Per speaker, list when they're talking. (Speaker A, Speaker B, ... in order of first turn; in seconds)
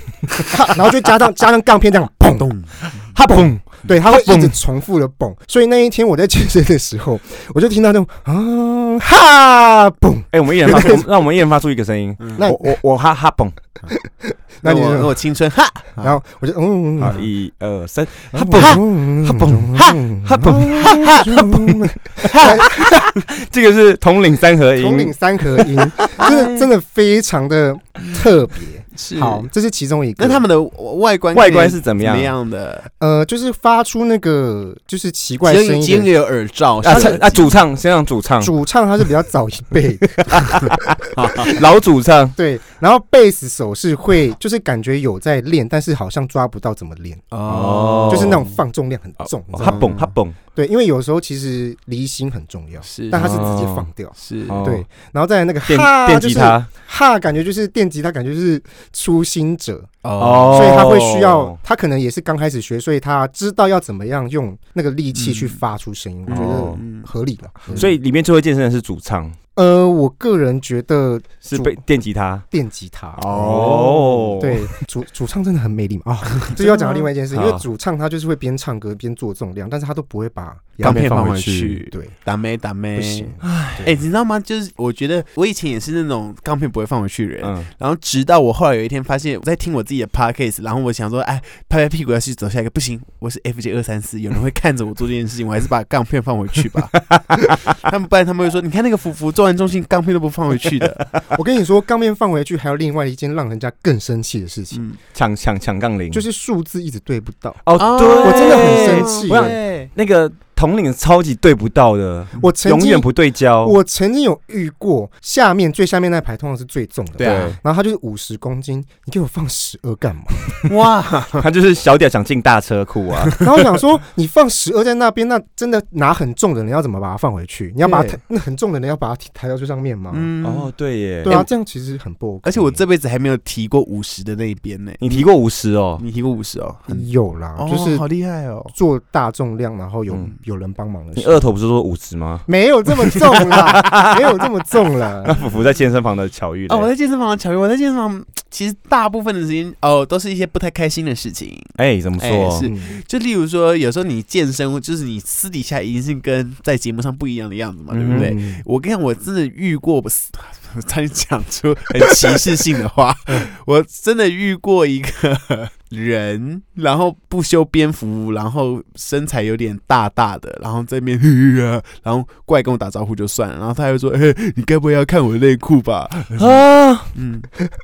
Speaker A: 0.4-11.1, 12.4-12.8, 13.9-15.2, 16.0-17.3, 18.3-23.1, 24.8-30.4, 33.0-36.1, 36.8-37.5, 38.4-40.8, 42.4-47.3, 48.1-59.9, 60.5-67.9, 69.5-71.8, 72.5-81.3, 83.0-84.0, 101.3-104.8, 106.1-107.6, 108.2-109.6, 112.4-120.5, 123.4-130.3, 131.2-132.8, 136.9-138.1, 138.7-141.5, 142.5-145.4, 152.6-153.0, 158.1-158.6
Speaker B: 2.3-2.8, 12.2-12.4, 14.6-16.1, 20.8-21.5, 22.3-22.6, 26.2-26.7, 29.0-29.5, 30.2-32.9, 35.4-37.6, 47.3-48.6, 49.6-50.0, 52.8-53.6, 54.2-54.6, 60.0-60.8, 65.1-65.6, 66.3-67.1, 67.7-68.0, 73.3-74.3, 76.5-77.1, 80.8-101.1, 104.7-105.0, 107.8-109.9, 117.2-117.6, 120.7-121.5, 127.8-128.2, 130.1-130.7, 131.3-131.5, 132.4-135.3, 136.0-138.7, 146.7-177.5
Speaker C: 3.2-4.6, 10.3-13.6, 17.0-25.1, 25.6-26.1, 31.3-32.4, 36.9-38.5, 40.3-42.4, 47.5-48.5, 49.2-50.4, 53.1-53.9, 54.5-54.9, 55.7-56.7, 60.2-61.6, 66.3-66.8, 67.7-69.4, 71.5-72.5, 73.2-74.7, 77.3-77.7, 80.8-81.8, 83.4-83.9, 87.4-87.7, 105.1-106.3, 107.6-113.8, 117.2-117.6, 121.4-123.4, 130.4-131.4, 135.0-136.0, 141.2-142.5, 143.2-144.5, 145.2-146.9, 151.8-152.7, 157.9-158.3, 176.4-177.1